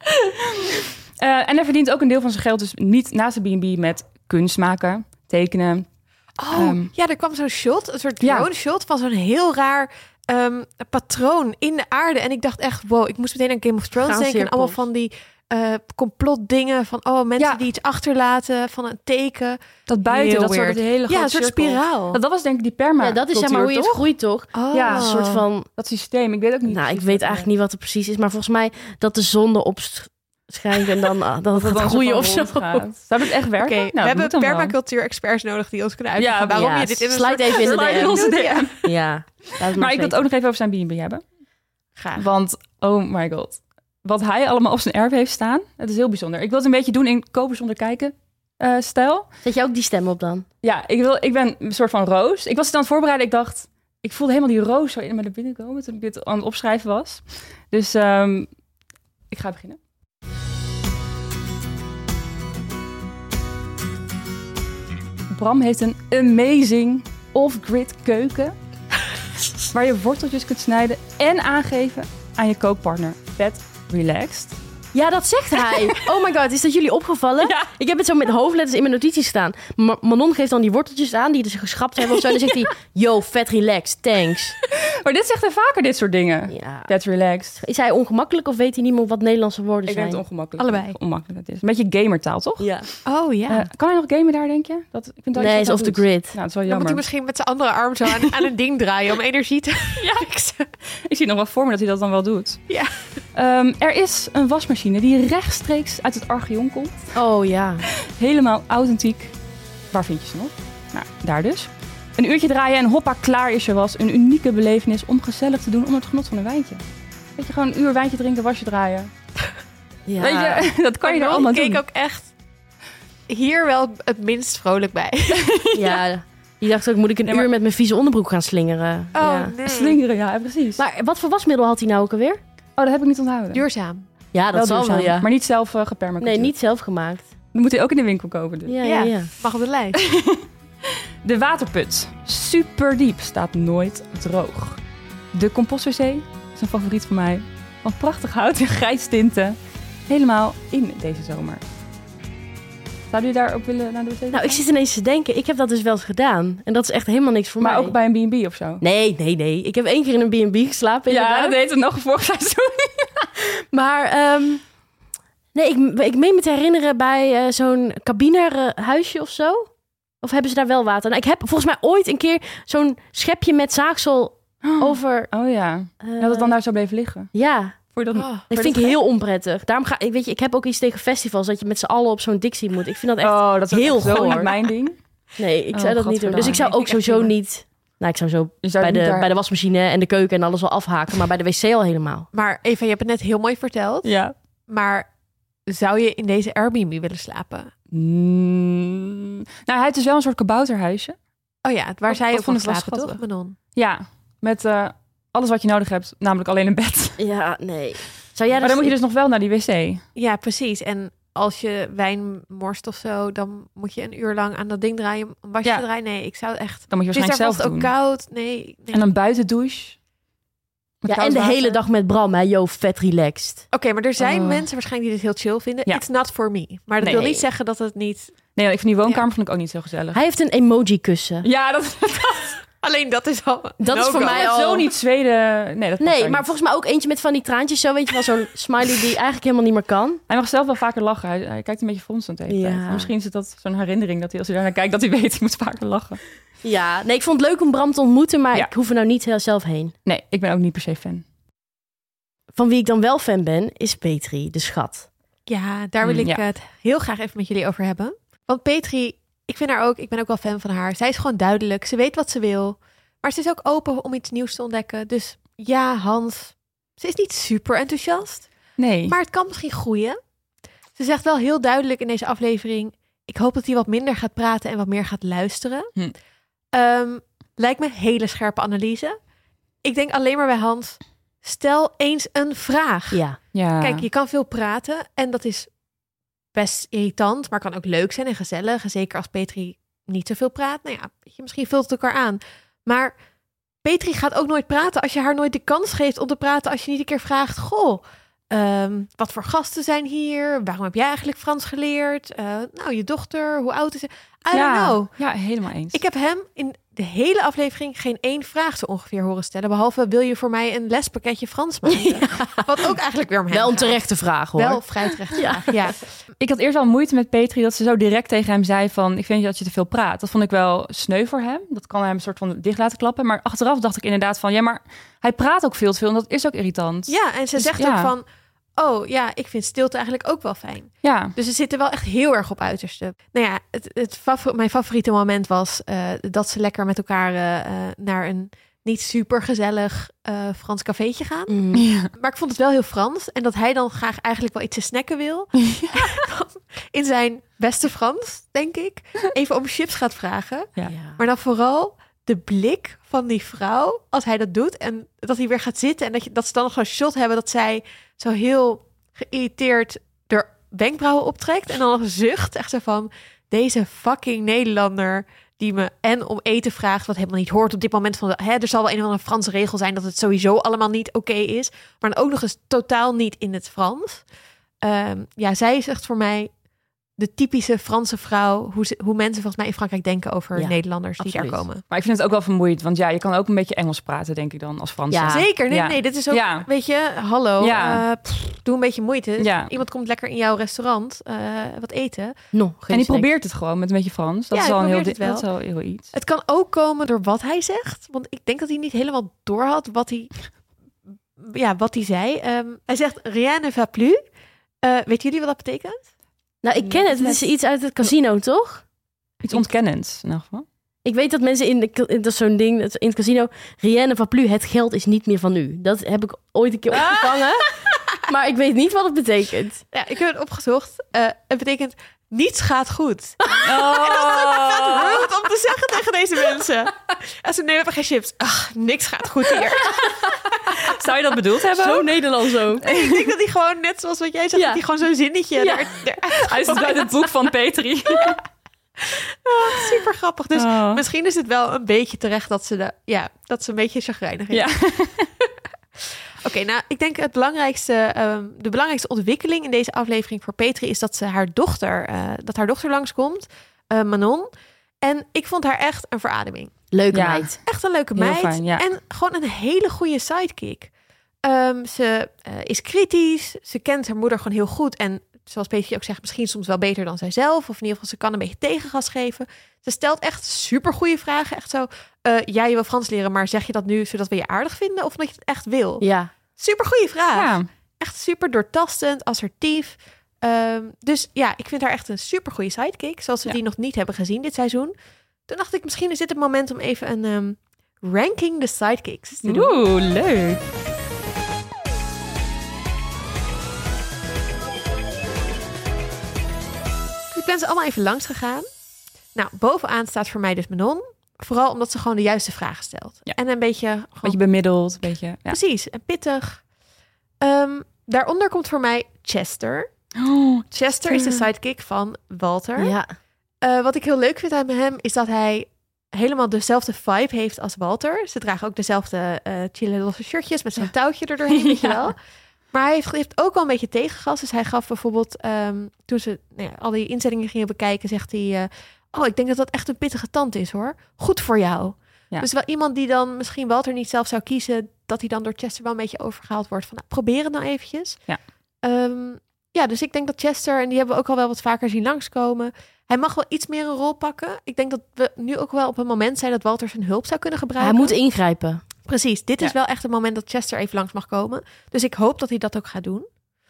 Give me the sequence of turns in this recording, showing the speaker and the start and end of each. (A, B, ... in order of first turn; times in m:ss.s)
0:00.6-0:06.9 A
0:06.4-0:22.2 B
0:08.2-0:08.5 A
0:14.0-0:14.8 C
0:19.9-0:24.1 A
0:23.0-0:25.7 C
0:24.5-0:25.4 B
0:24.7-0:27.5 A
0:26.7-0:32.9 C
0:31.5-0:34.8 A
0:33.6-0:38.9 B
0:36.2-0:36.9 A
0:36.5-0:38.3 C
0:37.5-0:38.8 A
0:38.8-0:40.2 C
0:39.7-0:41.2 A
0:41.9-0:42.3 B
0:42.2-0:49.3 A
0:49.4-0:50.4 C
0:50.6-0:58.5 A
0:59.3-0:59.8 A
1:05.3-1:08.5 A
1:09.7-1:14.6 A
1:14.9-1:24.6 C
1:17.4-1:17.7 A
1:25.0-1:27.6 A
1:26.5-1:26.9 C
1:27.6-1:30.2 C
1:29.8-1:37.0 A
1:30.6-1:31.0 B
1:32.6-1:32.9 C
1:33.0-1:33.6 B
1:35.4-1:36.4 C
1:36.6-1:40.6 B
1:40.0-1:47.2 A
1:42.7-1:43.2 B
1:47.1-1:47.9 C
1:47.9-1:49.4 A
1:49.9-1:56.8 A
1:57.4-1:59.1 A
2:00.0-2:00.7 C
2:00.2-2:01.8 A
2:01.0-2:02.3 B
2:03.3-2:05.4 B
2:05.4-2:06.0 A
2:05.7-2:09.5 C
2:09.1-2:10.0 B
2:09.6-2:10.8 A
2:10.8-2:12.4 C
2:12.8-2:13.6 A
2:13.5-2:14.1 B
2:14.3-2:15.3 C
2:14.5-2:16.5 A
2:16.2-2:17.3 C
2:17.5-2:18.8 A
2:18.6-2:19.3 C
2:18.8-2:20.0 B
2:20.0-2:24.8 A
2:25.3-2:31.6 A
2:33.1-2:34.6 A
2:34.3-2:38.0 C
2:37.6-2:38.8 A
2:38.8-2:41.6 C
2:41.1-2:43.3 A
2:43.4-2:44.7 C
2:45.5-2:55.3 C
2:54.6-2:57.3 A
2:56.0-2:56.6 C
2:57.3-3:04.5 C
2:57.9-2:59.0 A
2:58.1-2:58.5 B
3:03.2-3:06.8 A
3:05.4-3:12.3 C
3:06.4-3:07.3 B
3:08.6-3:09.3 A
3:12.3-3:15.1 B
3:14.0-3:14.3 A
3:15.6-3:17.7 B
3:17.9-3:21.2 A
3:21.6-3:23.6 B
3:22.1-3:27.2 A
3:27.2-3:29.0 C
3:28.6-3:30.0 A
3:30.1-3:39.1 B
3:36.9-3:37.9 A
3:38.9-3:40.0 A
3:41.0-3:41.8 A
3:41.1-3:43.7 C
3:43.7-3:49.2 B
3:44.2-3:44.6 A
3:47.0-3:47.4 A
3:47.1-3:47.4 C
3:48.5-3:50.2 A
3:50.1-3:51.5 C
3:51.4-3:52.6 A
3:52.8-3:54.6 B
3:53.8-3:54.9 C
3:54.1-3:56.4 A
3:56.0-4:00.2 C
4:00.3-4:06.2 A
4:02.5-4:03.1 C
4:06.6-4:09.9 C
4:10.0-4:11.2 A
4:12.5-4:15.1 C
4:15.4-4:30.2 B
4:16.0-4:16.4 A
4:28.8-4:29.2 A
4:30.9-4:36.0 B
4:36.7-4:39.3 B
4:39.8-4:45.8 B
4:43.1-4:43.4 C
4:43.5-4:44.0 A
4:46.5-4:53.2 B
4:53.8-5:16.1 B
5:04.5-5:06.0 A
5:11.9-5:12.6 C
5:13.5-5:15.7 C
5:16.4-5:28.1 A
5:27.1-6:16.6 B
5:31.0-5:31.3 A
5:41.5-5:41.9 C
5:41.7-5:42.1 A
5:45.7-5:46.0 A
5:50.9-5:51.2 C
6:17.2-6:21.8 B
6:20.5-6:21.7 C
6:21.9-6:26.7 A
6:25.1-6:25.5 C
6:25.3-6:32.4 B
6:27.6-6:28.0 A
6:29.4-6:29.7 A
6:32.5-6:33.3 C
6:32.9-6:36.1 A
6:34.5-6:40.6 B
6:41.4-6:44.3 B
6:44.8-6:46.1 B
6:46.6-6:48.8 C
6:46.8-6:47.5 A
6:49.4-6:50.6 A
6:51.0-6:59.8 C
6:59.9-7:10.3 B
7:03.6-7:05.3 A
7:10.6-7:12.2 A
7:11.7-7:12.8 C
7:12.8-7:17.3 B
7:12.8-7:13.3 A
7:14.5-7:14.8 C
7:15.6-7:15.9 C
7:16.4-7:18.4 A
7:19.0-7:24.7 B
7:20.5-7:21.0 A
7:24.5-7:25.3 A
7:26.0-7:34.5 B
7:35.0-7:36.8 B
7:36.9-7:37.5 C
7:37.1-7:38.8 A
7:37.6-7:40.9 B
7:41.4-8:04.9 B
7:56.0-7:56.3 C
7:57.3-7:57.7 A
8:05.4-8:09.7 B
8:09.4-8:10.6 A
8:17.3-8:18.6 B
8:19.3-8:24.4 B
8:24.2-8:25.6 A
8:25.4-8:26.7 B
8:27.4-8:30.1 B
8:30.2-8:31.3 A
8:30.7-8:33.0 B
8:32.8-8:33.1 C
8:33.6-9:08.2 B
8:41.5-8:42.0 A
9:07.8-9:08.8 C
9:09.0-9:13.3 B